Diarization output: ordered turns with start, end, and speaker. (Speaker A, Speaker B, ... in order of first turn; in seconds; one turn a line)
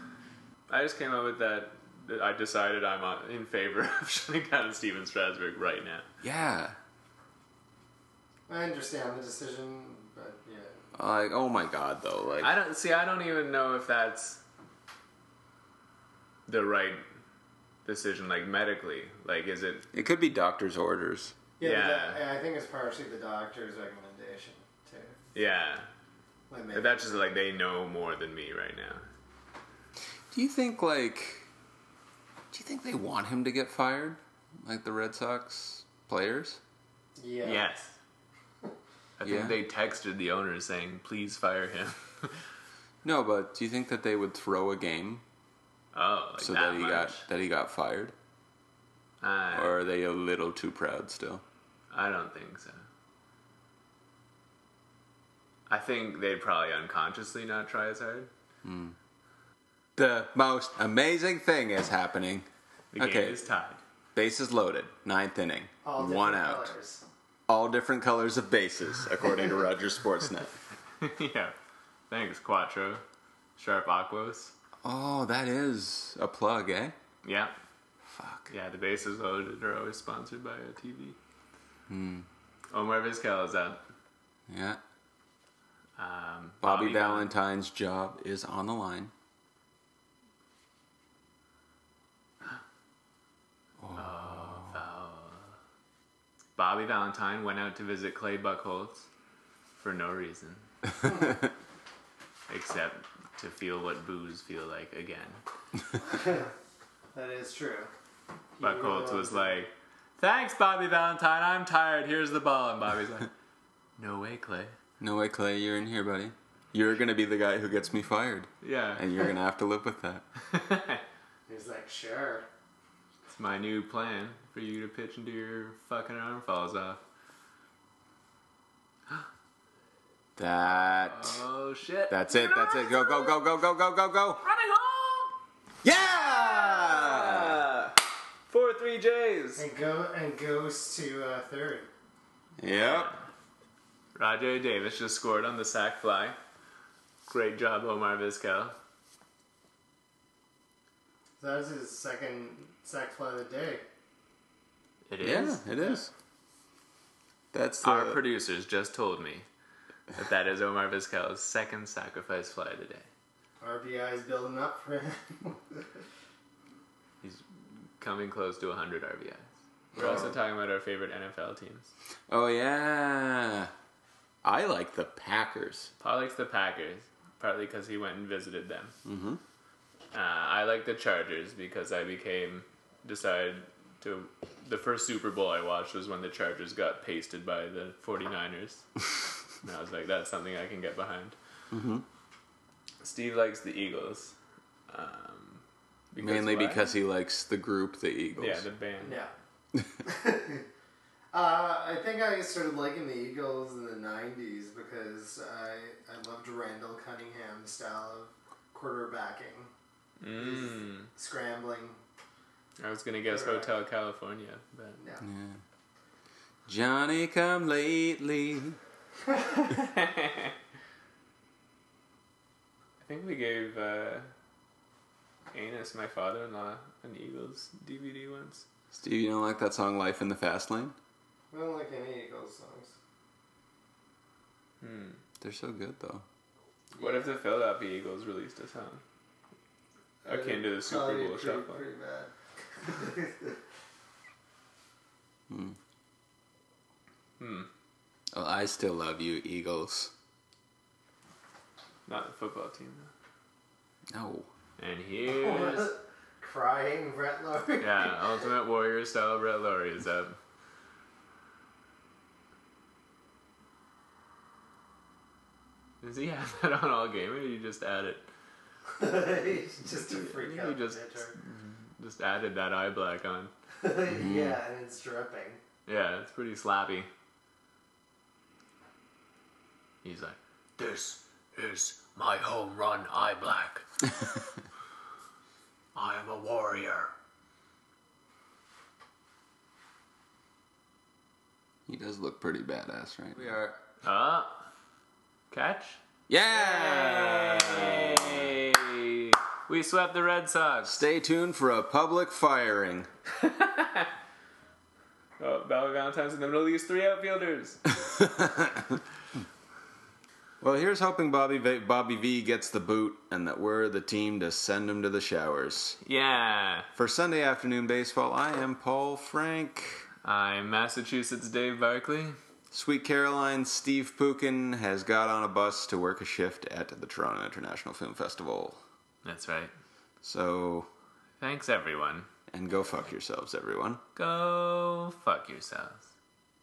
Speaker A: 0.7-6.0
Speaker B: 6.2-6.8
Speaker C: 8.5-10.8
Speaker B: 10.9-12.5
Speaker A: 12.4-14.4
Speaker A: 16.5-17.0
Speaker A: 17.8-19.9
Speaker B: 19.9-21.3
Speaker C: 21.6-25.2
Speaker A: 21.6-22.2
Speaker A: 25.3-25.9
Speaker C: 26.5-27.3
Speaker A: 26.7-29.0
Speaker B: 30.3-31.5
Speaker B: 32.5-36.6
Speaker C: 37.2-37.6
Speaker A: 37.4-37.9
Speaker A: 39.2-42.3
Speaker B: 39.2-39.6
Speaker B: 43.0-45.2
Speaker A: 45.9-47.2
Speaker B: 46.4-48.1
Speaker A: 49.2-49.8
Speaker B: 49.5-51.4
Speaker A: 51.9-52.8
Speaker A: 55.7-58.3
Speaker B: 58.6-59.0
Speaker B: 60.0-63.4
Speaker A: 62.9-63.8
Speaker B: 64.1-66.7
Speaker C: 65.8-67.0
Speaker B: 67.5-70.5
Speaker A: 71.0-71.5
Speaker A: 72.1-73.0
Speaker A: 73.6-74.5
Speaker B: 74.8-76.9
Speaker A: 77.2-77.5
Speaker B: 78.0-78.5
Speaker A: 78.5-81.2
Speaker B: 81.9-82.2
Speaker A: 82.7-83.8
Speaker B: 84.5-84.8
Speaker A: 86.0-87.3
Speaker B: 86.6-89.1
Speaker B: 93.8-94.8
Speaker A: 93.9-95.5
Speaker A: 96.6-99.1
Speaker A: 99.7-100.7
Speaker A: 102.5-105.4
Speaker C: 106.1-106.5
Speaker C: 107.1-107.9
Speaker C: 108.6-109.6
Speaker A: 108.6-113.3
Speaker A: 114.0-114.7
Speaker B: 115.0-120.2
Speaker A: 118.6-119.1
Speaker A: 120.4-121.0
Speaker C: 121.5-122.5
Speaker A: 123.3-127.0
Speaker B: 130.3-131.4
Speaker A: 131.1-133.4
Speaker B: 132.1-134.4
Speaker A: 134.4-135.3
Speaker B: 135.8-137.7
Speaker A: 136.0-139.6
Speaker C: 139.6-141.9
Speaker B: 142.6-143.1
Speaker A: 142.7-143.2
Speaker A: 144.1-146.4
Speaker A: 147.3-148.7
Speaker C: 151.4-153.8
Speaker A: 155.1-155.6
Speaker B: 155.2-156.1
Speaker B: 157.5-158.2
Speaker A: 157.8-159.4
Speaker A: 160.1-163.1
Speaker C: 163.6-165.8
Speaker A: 168.0-171.9
Speaker B: 169.9-170.3
Speaker B: 172.3-173.7
Speaker B: 174.4-175.9
Speaker A: 176.0-178.9
Speaker B: 179.0-179.4
Speaker A: 180.1-188.8
Speaker A: 189.6-191.3
Speaker B: 191.7-192.0
Speaker A: 193.0-194.3
Speaker A: 194.9-196.9
Speaker B: 196.2-198.6
Speaker A: 198.4-199.2
Speaker C: 199.0-199.3
Speaker C: 200.0-200.7
Speaker C: 201.3-209.7
Speaker A: 210.2-211.1
Speaker C: 210.3-212.0
Speaker A: 212.8-215.0
Speaker C: 213.3-213.7
Speaker C: 215.0-215.2
Speaker B: 215.2-215.6
Speaker B: 216.7-218.8
Speaker A: 219.7-220.5
Speaker A: 223.0-224.3
Speaker A: 225.5-228.6
Speaker B: 228.9-230.9
Speaker C: 231.5-232.9
Speaker A: 234.8-235.2
Speaker B: 235.4-236.2
Speaker C: 237.0-237.2
Speaker A: 237.0-239.0
Speaker C: 240.2-243.6
Speaker A: 240.2-241.8
Speaker B: 245.5-245.8
Speaker A: 247.4-247.7
Speaker B: 248.3-250.1
Speaker A: 252.1-253.1
Speaker B: 254.1-254.5
Speaker A: 254.8-255.9
Speaker C: 255.2-258.4
Speaker A: 257.8-260.4
Speaker A: 266.0-268.2
Speaker C: 269.0-271.3
Speaker A: 270.0-273.5
Speaker C: 273.8-275.6
Speaker B: 274.1-274.6
Speaker A: 275.9-277.1
Speaker A: 280.0-283.9
Speaker A: 285.9-287.1
Speaker B: 291.9-293.8
Speaker A: 294.0-294.6
Speaker A: 295.5-301.0
Speaker B: 296.3-298.6
Speaker B: 300.8-303.1
Speaker A: 303.3-304.1
Speaker A: 305.4-307.8
Speaker B: 308.2-308.9
Speaker B: 310.6-316.0
Speaker A: 316.0-316.9
Speaker B: 316.9-320.1
Speaker A: 320.2-322.4
Speaker B: 322.7-328.8
Speaker A: 329.2-329.7
Speaker B: 330.2-330.9
Speaker A: 331.4-332.3
Speaker B: 332.5-334.0
Speaker A: 334.1-336.1